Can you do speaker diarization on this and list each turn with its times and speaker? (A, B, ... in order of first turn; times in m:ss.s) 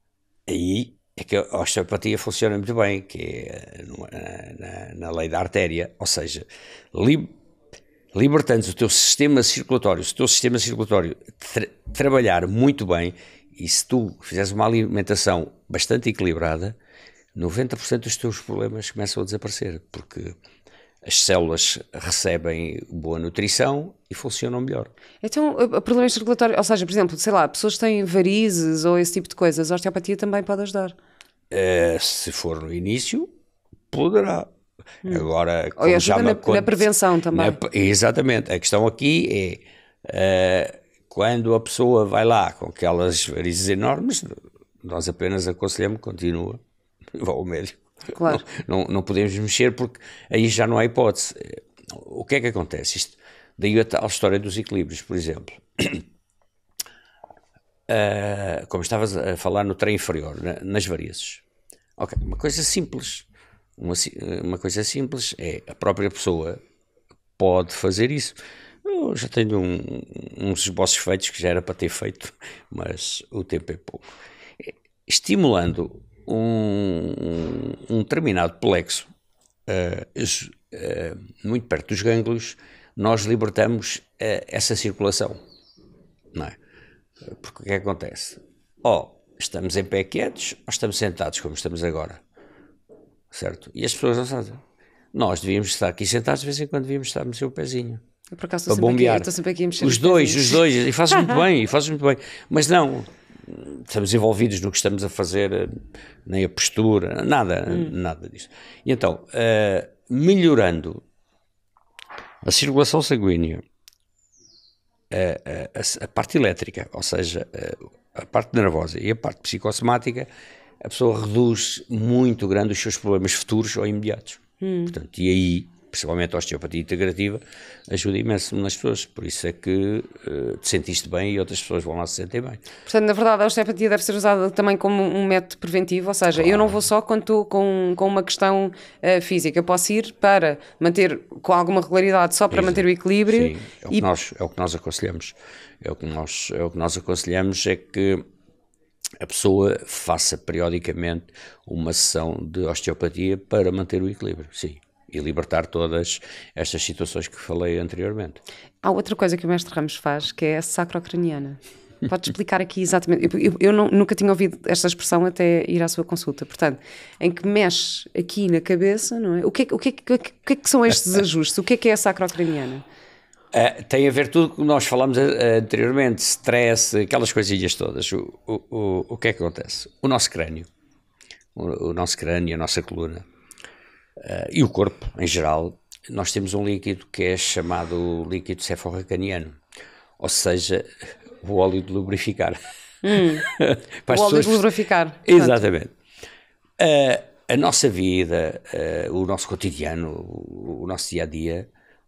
0:00.5-0:07.4 A
0:08.1-0:16.8 A
0:17.4-0:20.4 A
0:21.0-0:24.9 A
0:25.2-0:31.0 B
0:31.5-0:33.3 A
0:33.9-0:34.5 A
0:35.0-0:37.6 B
0:35.1-0:46.6 A
0:47.1-0:56.0 A
0:48.1-0:48.4 B
0:57.9-1:01.4 A
1:02.0-1:06.6 A
1:07.4-1:14.0 A
1:14.6-1:19.1 A
1:19.7-1:25.4 A
1:27.2-1:32.2 A
1:33.3-1:34.6 A
1:35.1-1:38.0 A
1:38.3-1:40.6 B
1:38.7-1:45.7 A
1:46.3-1:51.0 A
1:52.4-1:53.6 A
1:55.1-2:00.3 A
2:00.8-2:12.6 A
2:04.6-2:05.0 B
2:12.9-2:24.1 B
2:16.3-2:16.8 A
2:22.5-2:28.2 A
2:29.2-2:38.4 A
2:38.8-2:52.8 B
2:53.5-3:00.7 A
3:01.6-3:03.2 A
3:04.2-3:09.6 A
3:10.2-3:12.6 A
3:13.0-3:13.5 B
3:13.1-3:14.7 A
3:14.1-3:15.6 B
3:15.2-3:15.9 A
3:16.8-3:21.7 A